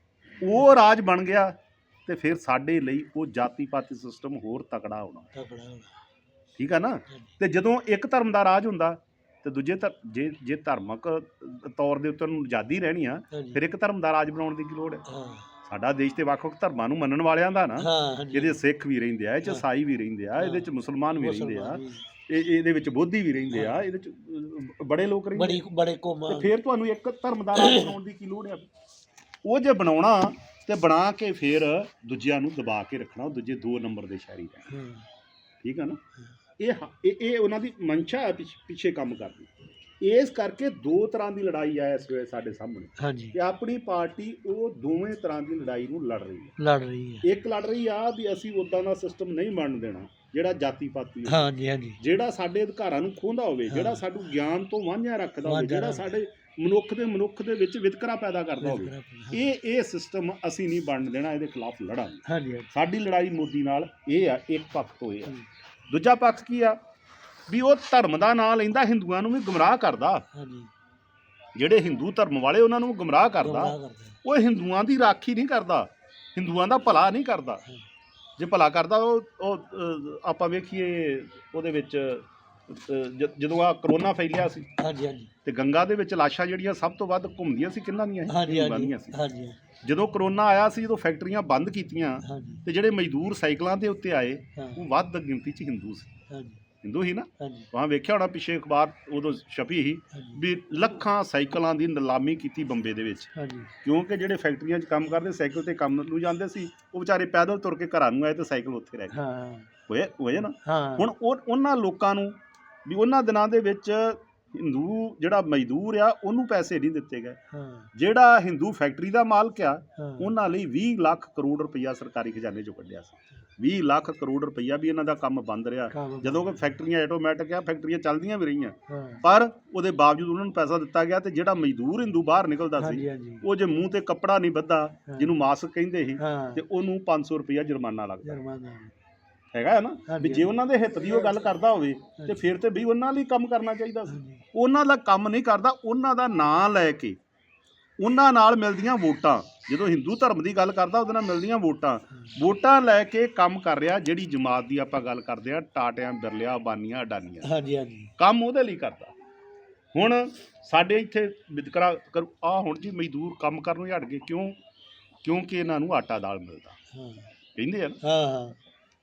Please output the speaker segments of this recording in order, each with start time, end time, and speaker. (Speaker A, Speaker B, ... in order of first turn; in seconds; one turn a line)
Speaker A: 0.4-5.3
Speaker B: 5.3-5.9
Speaker A: 6.6-15.0
Speaker B: 13.3-13.6
Speaker B: 15.1-15.5
Speaker A: 15.6-25.6
Speaker B: 17.8-18.6
Speaker B: 20.4-22.0
Speaker B: 23.5-23.9
Speaker B: 25.4-26.5
Speaker A: 26.3-28.7
Speaker B: 27.5-28.0
Speaker A: 29.4-34.7
Speaker B: 34.7-35.0
Speaker A: 35.6-36.0
Speaker A: 36.6-46.5
Speaker B: 43.0-43.4
Speaker B: 46.6-47.2
Speaker A: 47.2-51.5
Speaker B: 51.2-52.0
Speaker A: 52.0-65.3
Speaker B: 53.7-54.0
Speaker B: 55.4-56.1
Speaker B: 58.6-59.5
Speaker B: 62.2-62.7
Speaker A: 65.9-66.8
Speaker A: 67.5-70.2
Speaker B: 70.3-70.7
Speaker A: 71.5-77.6
Speaker B: 73.4-74.2
Speaker A: 78.4-84.7
Speaker B: 84.8-85.3
Speaker A: 85.4-89.2
Speaker B: 88.3-89.6
Speaker A: 89.8-96.1
Speaker B: 92.2-92.6
Speaker B: 94.5-94.8
Speaker B: 96.3-96.6
Speaker A: 96.8-103.3
Speaker B: 97.4-97.7
Speaker B: 100.1-100.4
Speaker B: 103.3-103.7
Speaker A: 103.8-109.2
Speaker B: 109.1-109.7
Speaker A: 109.9-117.4
Speaker B: 110.6-111.1
Speaker B: 117.5-117.9
Speaker A: 117.9-138.3
Speaker B: 120.0-120.3
Speaker B: 125.9-126.8
Speaker B: 128.9-129.2
Speaker B: 132.8-133.4
Speaker B: 135.1-135.3
Speaker B: 136.2-136.6
Speaker B: 138.2-138.9
Speaker A: 139.5-147.2
Speaker B: 140.1-140.5
Speaker B: 142.2-142.5
Speaker B: 144.1-144.4
Speaker A: 148.0-157.5
Speaker B: 157.4-158.1
Speaker A: 158.2-159.1
Speaker A: 159.9-164.6
Speaker A: 165.2-166.8
Speaker B: 166.9-167.3
Speaker A: 167.6-168.0
Speaker B: 168.0-168.6